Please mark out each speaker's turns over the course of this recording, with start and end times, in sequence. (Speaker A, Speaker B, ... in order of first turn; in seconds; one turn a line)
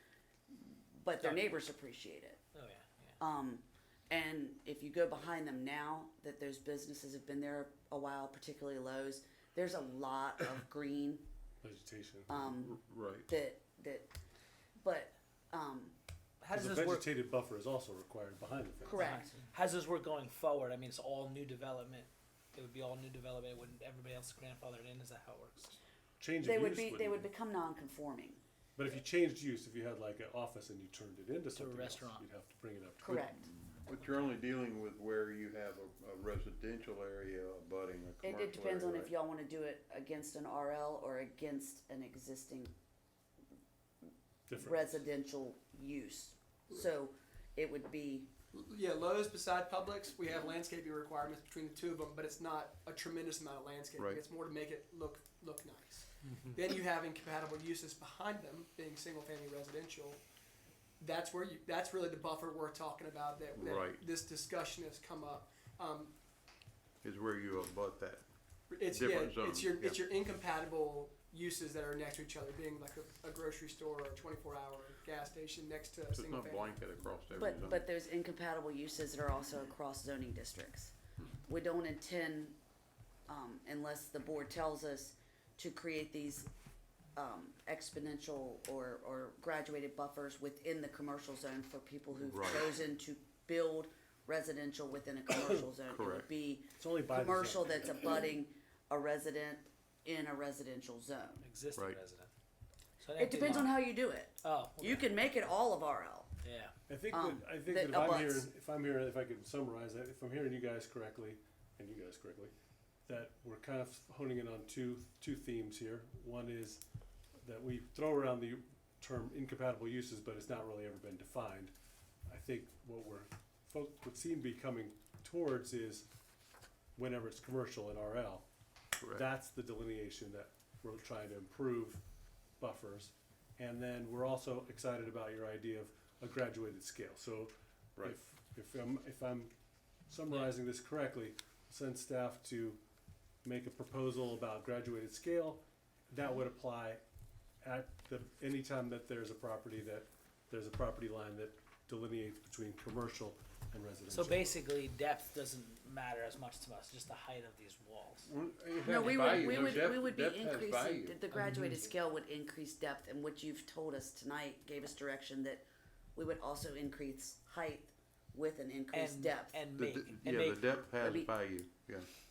Speaker A: 0.5-2.4
Speaker B: 2.5-3.1
Speaker A: 3.2-11.2
Speaker C: 11.6-12.4
Speaker A: 12.3-14.1
Speaker D: 12.6-13.3
Speaker A: 14.8-15.9
Speaker B: 16.4-17.1
Speaker C: 16.5-19.2
Speaker A: 18.8-19.3
Speaker B: 18.9-25.8
Speaker C: 26.2-27.3
Speaker A: 26.4-28.4
Speaker C: 28.8-33.5
Speaker B: 31.5-32.2
Speaker A: 33.0-33.5
Speaker D: 33.8-39.1
Speaker A: 38.2-42.7
Speaker C: 44.5-45.0
Speaker A: 44.6-48.3
Speaker E: 48.5-60.2
Speaker E: 61.0-66.1
Speaker D: 63.5-64.0
Speaker D: 67.0-68.2
Speaker E: 68.7-76.8
Speaker D: 68.8-70.0
Speaker D: 76.1-77.9
Speaker A: 77.3-80.9
Speaker A: 81.5-82.5
Speaker A: 83.3-86.5
Speaker A: 87.2-101.5
Speaker D: 92.2-92.8
Speaker D: 95.8-96.3
Speaker C: 96.8-98.2
Speaker B: 101.4-102.3
Speaker B: 103.0-105.1
Speaker A: 103.2-106.3
Speaker B: 106.4-106.7
Speaker C: 106.9-112.5
Speaker A: 107.1-108.5
Speaker C: 113.0-116.8
Speaker C: 117.4-121.7
Speaker C: 122.2-126.1
Speaker C: 127.0-128.4
Speaker C: 129.1-132.0
Speaker C: 132.6-139.5
Speaker C: 140.1-142.8
Speaker C: 143.4-147.0
Speaker C: 147.6-154.6
Speaker B: 154.1-158.3
Speaker D: 158.3-161.2
Speaker A: 158.8-165.6
Speaker B: 161.3-161.9
Speaker A: 166.2-169.6
Speaker B: 168.9-170.6
Speaker D: 169.7-172.1
Speaker A: 171.0-171.3